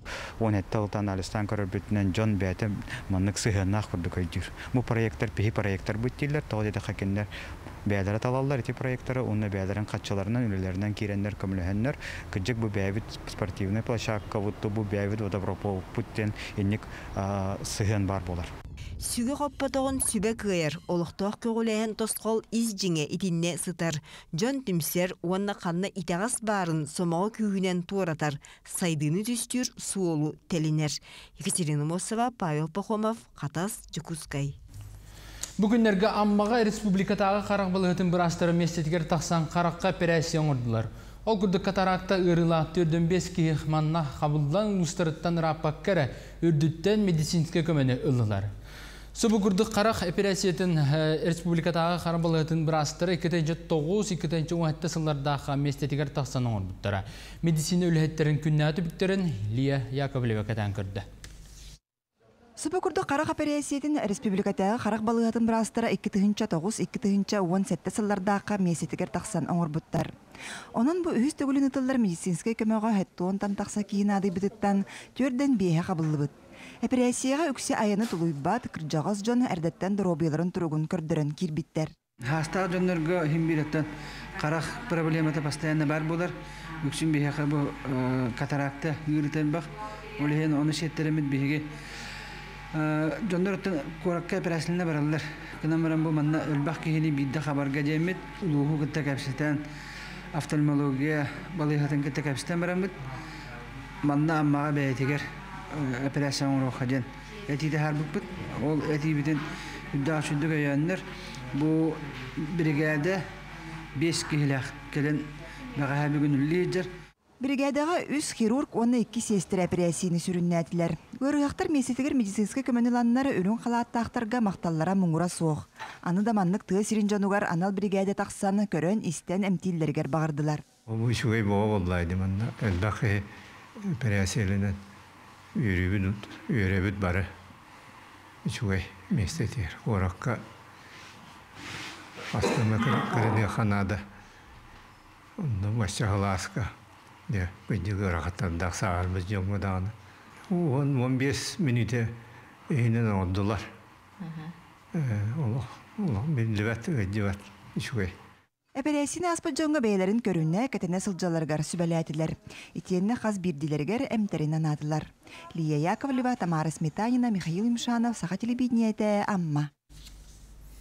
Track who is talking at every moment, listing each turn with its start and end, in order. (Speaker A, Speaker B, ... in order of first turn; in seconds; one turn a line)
Speaker A: 0.4-7.3
Speaker A: 7.9-18.5
Speaker B: 19.0-34.5
Speaker C: 35.6-48.5
Speaker C: 49.1-61.0
Speaker D: 62.6-70.1
Speaker D: 70.7-81.9
Speaker E: 82.3-83.8
Speaker E: 84.4-91.7
Speaker E: 92.7-99.6
Speaker E: 100.3-102.9
Speaker E: 104.0-113.2
Speaker E: 113.9-116.9
Speaker D: 117.4-130.6
Speaker F: 130.9-133.3
Speaker F: 133.8-134.8
Speaker F: 135.5-137.3
Speaker F: 138.4-140.4
Speaker F: 142.3-144.0
Speaker F: 145.4-146.7
Speaker F: 147.3-149.9
Speaker F: 150.5-152.2
Speaker F: 152.7-153.7
Speaker F: 154.9-158.1
Speaker D: 158.7-169.7